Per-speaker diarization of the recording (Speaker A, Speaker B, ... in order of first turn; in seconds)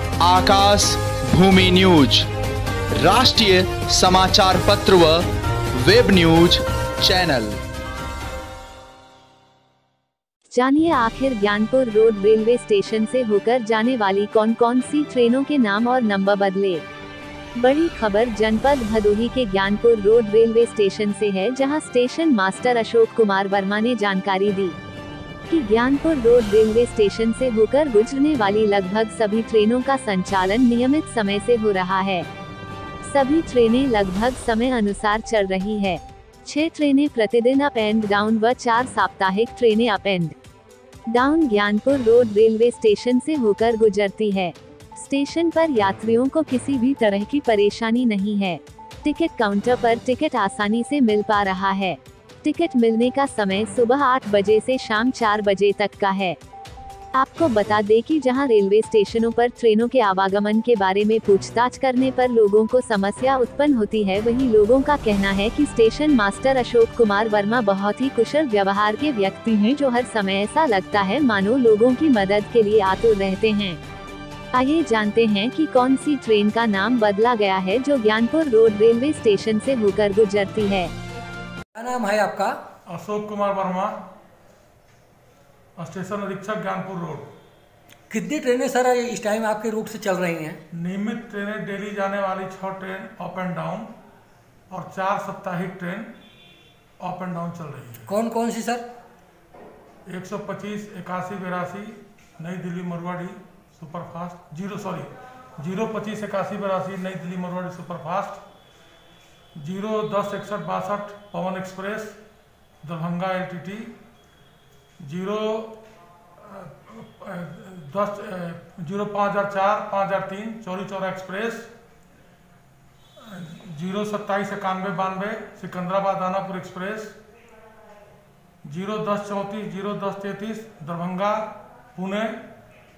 Speaker A: 0.2-2.3, 3.0-5.2, 5.8-7.6
Speaker B: 10.5-16.8, 17.6-24.8, 25.5-32.3, 33.0-40.4, 41.1-56.4, 57.1-73.8, 74.5-80.9
Speaker C: 81.7-82.5, 88.1-90.6, 98.1-98.8
Speaker D: 82.9-84.0, 85.8-87.3, 90.7-93.9, 94.7-96.1, 97.0-98.1, 100.0-108.4, 109.6-112.2, 112.8-113.9, 115.0-115.8, 116.4-121.7, 123.2-127.2, 128.6-132.4